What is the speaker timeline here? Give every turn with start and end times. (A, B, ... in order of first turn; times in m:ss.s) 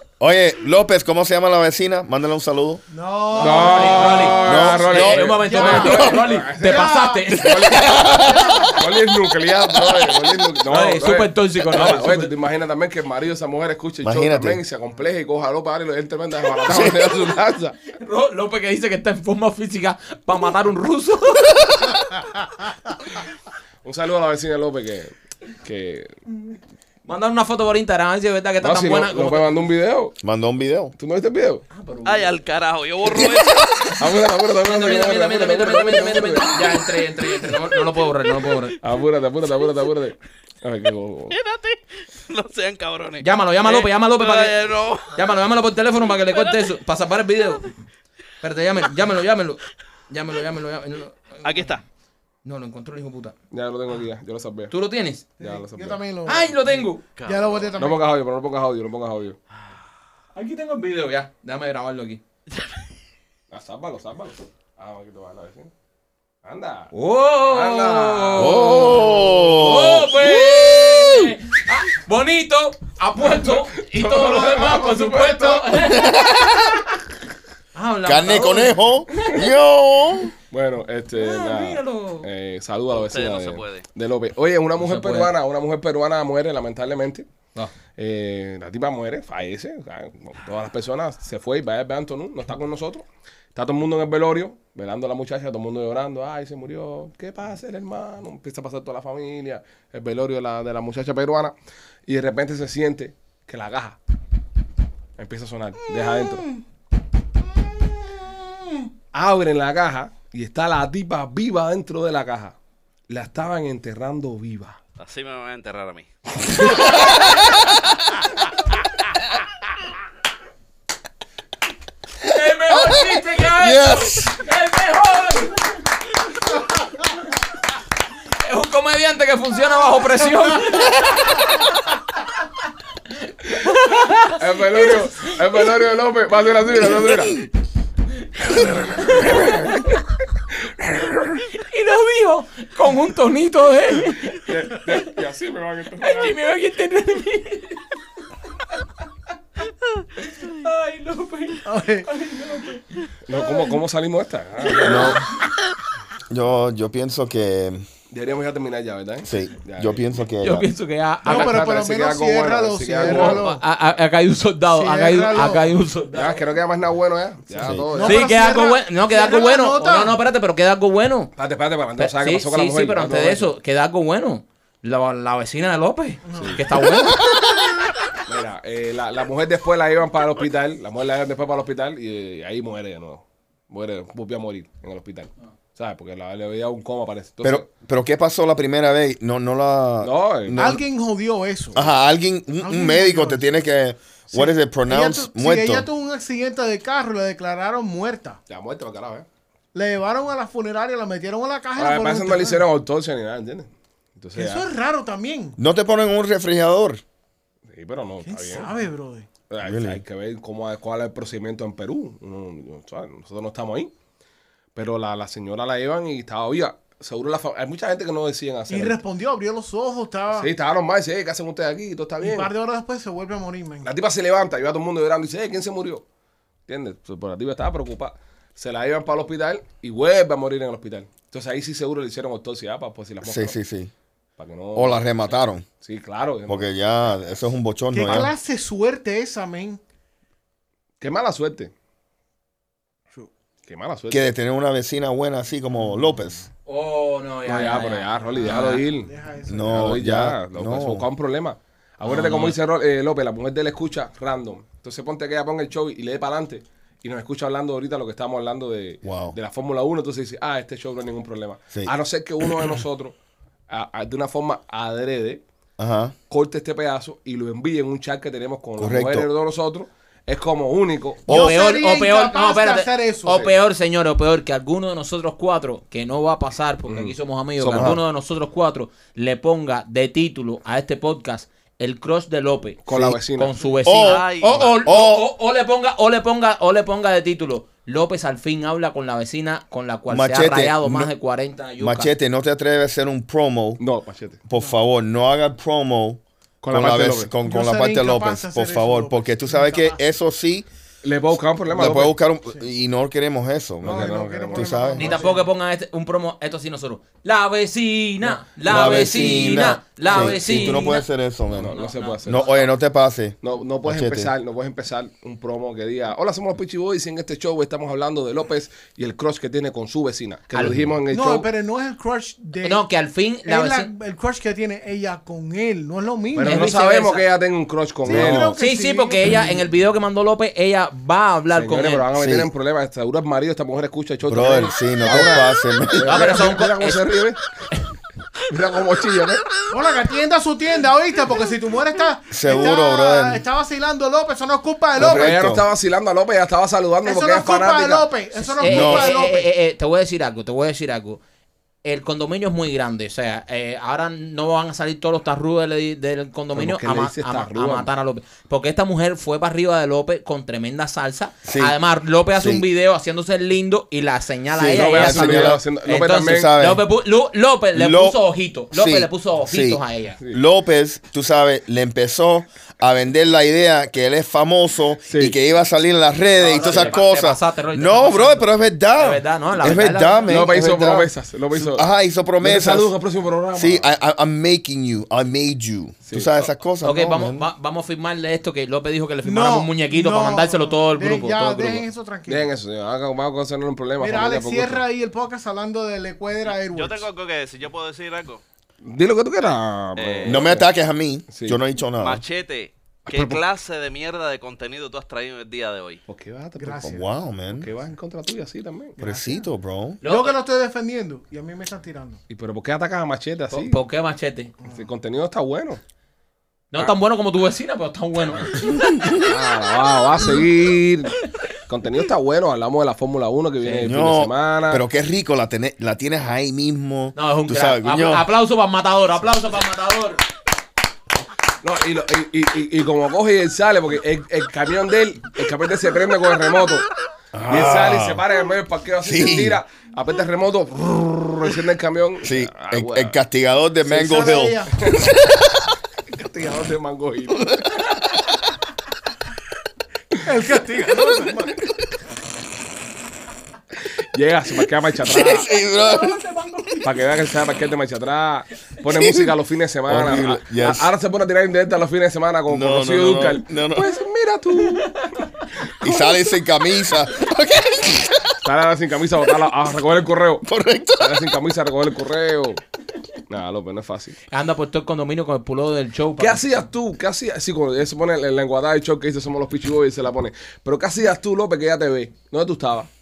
0:00.2-0:02.8 A
0:02.9-0:04.7 B
0:03.3-0:07.6 C
0:03.4-0:17.8 D
0:04.4-0:06.2 A
0:05.4-0:07.3 B
0:07.3-0:08.8 A
0:08.0-0:08.8 B
0:09.7-0:10.2 A
0:10.7-0:12.3 C
0:14.0-0:14.6 A
0:16.7-0:17.3 A
0:18.0-0:21.9 C
0:23.8-0:25.1 D
0:25.6-0:26.2 D
0:27.0-0:29.7 C
0:28.6-0:30.2 D
0:30.2-0:30.9 A
0:31.0-0:31.7 D
0:31.7-0:32.4 C
0:32.0-0:33.9 E
0:33.1-0:33.6 A
0:34.0-0:36.8 D
0:34.6-0:38.8 C
0:38.8-0:41.3 D
0:41.3-0:45.2 E
0:43.2-0:47.8 C
0:48.4-0:51.7 C
0:51.4-0:51.8 E
0:52.4-0:53.3 C
0:53.5-0:54.7 D
0:54.7-0:55.3 C
0:55.4-0:56.6 B
0:55.4-0:56.0 D
0:56.3-0:57.0 C
0:57.2-0:57.7 E
0:57.2-0:58.1 B
0:57.8-0:59.4 D
1:00.4-1:02.2 C
1:03.5-1:05.7 D
1:06.4-1:06.9 D
1:06.9-1:16.2 C
1:07.4-1:09.5 D
1:08.4-1:11.3 A
1:13.5-1:15.7 D
1:15.9-1:16.8 A
1:17.7-1:19.4 C
1:18.0-1:20.3 A
1:20.5-1:27.3 D
1:21.2-1:22.3 C
1:22.9-1:23.8 E
1:24.8-1:25.3 C
1:28.0-1:41.5 D
1:42.1-1:44.0 D
1:45.2-1:46.5 D
1:49.1-1:52.6 D
1:53.1-1:54.8 D
1:55.0-1:56.1 E
1:57.0-1:57.6 A
2:02.2-2:05.8 C
2:02.7-2:04.4 A
2:08.4-2:11.6 C
2:13.5-2:15.3 C
2:14.4-2:17.4 D
2:18.5-2:19.8 C
2:20.8-2:21.2 D
2:21.5-2:25.0 C
2:24.4-2:26.3 D
2:26.0-2:27.9 C
2:30.2-2:33.1 C
2:31.6-2:32.1 B
2:33.3-2:35.2 D
2:34.8-2:35.2 A
2:36.3-2:37.8 A
2:38.1-2:40.1 D
2:39.2-2:40.7 A
2:40.4-2:41.9 C
2:41.2-2:43.6 B
2:41.3-2:43.4 D
2:43.0-2:46.4 C
2:44.7-2:45.7 B
2:46.1-2:48.3 D
2:47.6-2:47.9 A
2:47.9-2:50.2 B
2:48.0-2:51.3 C
2:51.4-2:53.5 D
2:52.0-2:57.2 C
2:56.3-2:56.6 B
2:56.3-2:56.6 D
2:58.3-3:07.7 D
3:07.4-3:10.8 A
3:10.0-3:10.7 D
3:10.6-3:11.9 B
3:11.7-3:15.9 A
3:12.6-3:13.6 B
3:14.3-3:18.4 B
3:18.5-3:19.3 D
3:19.7-3:22.6 B
3:21.8-3:24.7 D
3:24.4-3:25.6 B
3:25.6-3:27.0 A
3:27.7-3:28.8 D
3:28.3-3:29.3 B
3:29.5-3:33.9 D
3:29.6-3:30.0 A
3:34.8-3:39.0 D
3:38.7-3:40.5 B
3:40.3-3:42.5 D
3:42.2-3:43.9 B
3:43.8-3:46.0 D
3:46.7-3:53.6 D
3:53.2-3:53.9 A
3:54.4-3:55.2 D
3:54.7-3:55.7 A
3:55.8-3:56.7 D
3:56.5-3:58.3 A
3:57.9-3:59.8 B
4:01.0-4:01.7 D
4:03.7-4:04.3 D
4:04.1-4:06.4 A
4:06.7-4:08.9 C
4:07.5-4:09.1 D
4:08.3-4:09.9 B
4:09.5-4:11.1 A
4:09.7-4:23.1 D
4:12.0-4:12.6 C
4:19.0-4:19.4 A
4:22.4-4:22.7 A
4:23.7-4:25.4 D
4:25.8-4:26.2 A
4:26.3-4:31.3 D
4:28.8-4:29.3 A
4:31.3-4:31.6 A
4:31.3-4:33.4 B
4:31.3-4:42.8 C
4:33.3-4:33.5 D
4:36.9-4:38.0 D
4:37.7-4:38.0 A
4:42.8-4:43.5 D
4:42.9-4:43.2 A
4:43.3-4:52.1 C
4:43.8-4:45.3 A
4:43.9-4:45.0 E
4:50.1-4:51.1 A
4:51.8-4:53.8 A
4:53.8-4:54.4 D
4:54.4-5:00.7 A
4:56.6-4:57.3 D
4:57.4-5:00.0 B
5:01.0-5:02.2 D
5:01.7-5:05.2 A
5:03.8-5:05.2 D
5:03.8-5:05.4 B
5:05.0-5:12.7 C
5:08.6-5:11.7 A
5:08.7-5:09.3 D
5:10.1-5:10.8 D
5:11.5-5:12.6 D
5:12.3-5:14.3 A
5:13.4-5:21.5 D
5:20.6-5:21.0 A
5:21.1-5:22.8 B
5:22.6-5:23.9 C
5:23.5-5:26.7 B
5:26.3-5:28.5 D
5:26.4-5:27.2 C
5:28.1-5:28.6 A
5:28.1-5:29.6 B
5:28.6-5:32.0 C
5:31.5-5:37.4 D
5:32.2-5:32.5 A
5:34.3-5:36.4 A
5:36.0-5:37.0 C
5:38.5-5:39.4 D
5:39.7-5:45.5 B
5:42.3-5:43.4 A
5:45.0-5:45.6 A
5:45.0-5:48.1 D
5:47.0-5:49.5 B
5:48.4-5:51.2 C
5:48.6-5:49.2 A
5:51.8-6:10.2 C
5:56.5-5:57.9 D
6:01.4-6:01.7 A
6:02.4-6:02.6 A
6:04.6-6:06.8 A
6:04.7-6:06.5 D
6:07.7-6:08.2 A
6:08.7-6:23.0 A
6:15.1-6:15.4 D
6:16.4-6:20.4 C
6:20.3-6:21.9 D
6:22.4-6:23.9 D
6:23.6-6:27.5 A
6:26.1-6:26.3 D
6:26.8-6:31.8 C
6:29.2-6:32.5 B
6:32.3-6:34.8 D
6:34.0-6:37.1 B
6:36.5-6:38.4 E
6:38.8-6:40.7 D
6:40.0-6:40.5 E
6:40.2-6:42.2 A
6:41.3-6:41.6 D
6:42.0-6:46.0 E
6:43.1-6:43.4 D
6:46.1-6:47.0 D
6:46.6-6:47.0 B
6:46.9-6:47.7 A
6:47.5-6:49.0 D
6:49.0-6:49.4 B
6:49.0-6:50.0 A
6:50.0-6:50.4 C
6:50.0-6:52.2 B
6:52.3-6:53.8 D
6:53.5-6:54.5 C
6:54.7-6:55.8 D
6:56.7-6:58.7 C
6:58.6-6:59.3 A
6:59.2-7:01.2 D
7:01.7-7:04.8 D
7:03.8-7:08.2 A
7:07.2-7:10.2 C
7:11.6-7:16.9 D
7:17.3-7:18.2 A
7:17.5-7:23.2 D
7:19.0-7:19.6 A
7:22.2-7:25.7 A
7:23.9-7:24.8 B
7:24.8-7:25.1 D
7:26.1-7:27.6 D
7:27.4-7:27.7 A
7:30.2-7:31.6 B
7:34.1-7:35.5 D
7:35.0-7:36.2 A
7:35.8-7:36.8 C
7:36.8-7:45.0 D
7:38.9-7:39.4 A
7:39.9-7:40.9 A
7:42.5-7:43.9 A
7:44.8-7:45.1 C
7:45.8-7:48.4 A
7:48.4-7:50.5 D
7:50.4-7:51.4 A
7:51.0-7:52.6 D
7:53.3-7:54.2 D
7:54.3-7:56.4 C
7:56.2-8:02.9 D